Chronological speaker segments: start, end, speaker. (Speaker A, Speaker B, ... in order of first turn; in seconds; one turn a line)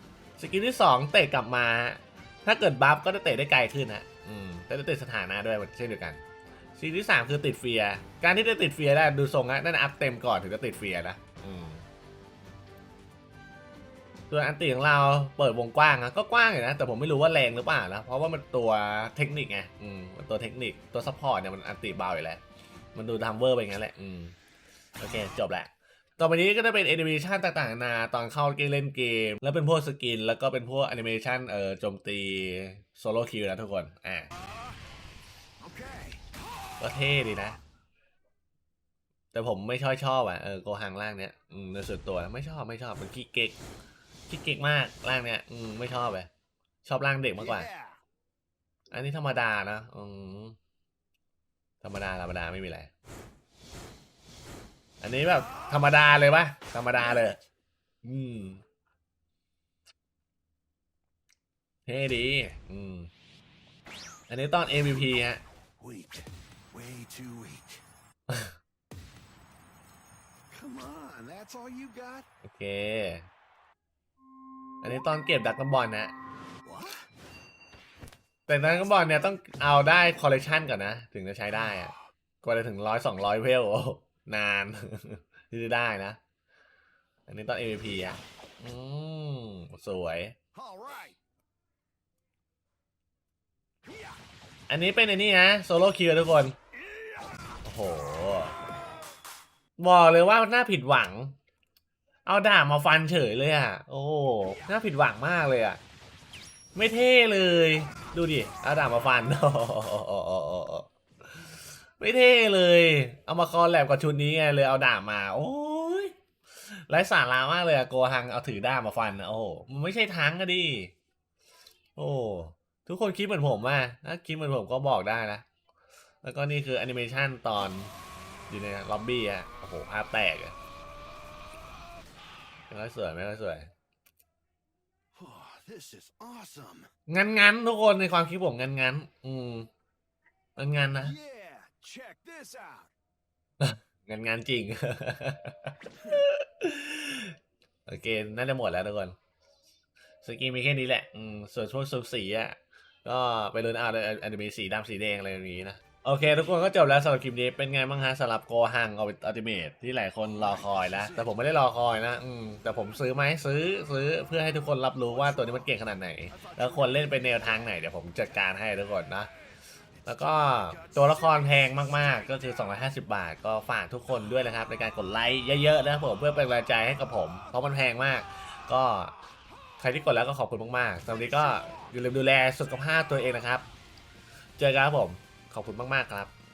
Speaker A: 0.4-6.2
Speaker A: 6.8-11.8
Speaker A: 14.3-22.4
Speaker A: 22.9-24.4
Speaker A: 25.0-34.3
Speaker B: 35.6-36.2
Speaker A: 36.8-37.6
Speaker A: 39.3-43.6
Speaker A: 44.3-46.3
Speaker A: 46.8-47.7
Speaker B: 47.4-48.0
Speaker A: 48.9-50.6
Speaker A: 51.8-52.9
Speaker A: 55.0-57.4
Speaker A: 58.0-58.6
Speaker A: 61.9-63.1
Speaker A: 64.3-65.4
Speaker B: 65.8-67.8
Speaker B: 70.5-72.2
Speaker A: 72.4-73.3
Speaker A: 74.8-76.1
Speaker B: 76.6-77.1
Speaker A: 78.5-86.2
Speaker A: 87.3-90.4
Speaker B: 90.5-91.2
Speaker B: 93.9-94.2
Speaker A: 94.7-96.6
Speaker B: 96.9-97.2
Speaker A: 97.6-98.5
Speaker A: 99.8-101.4
Speaker A: 102.2-105.8
Speaker A: 106.8-116.1
Speaker A: 116.7-120.9
Speaker A: 122.0-125.4
Speaker A: 126.2-127.9
Speaker A: 128.5-130.6
Speaker A: 132.7-133.7
Speaker B: 135.1-136.9
Speaker A: 137.1-139.7
Speaker A: 140.6-141.1
Speaker B: 141.0-142.9
Speaker A: 143.6-149.2
Speaker A: 150.2-169.3
Speaker B: 160.2-161.3
Speaker B: 165.1-165.7
Speaker B: 166.3-167.7
Speaker A: 170.1-179.1
Speaker B: 170.1-171.8
Speaker A: 179.8-183.6
Speaker A: 184.6-186.3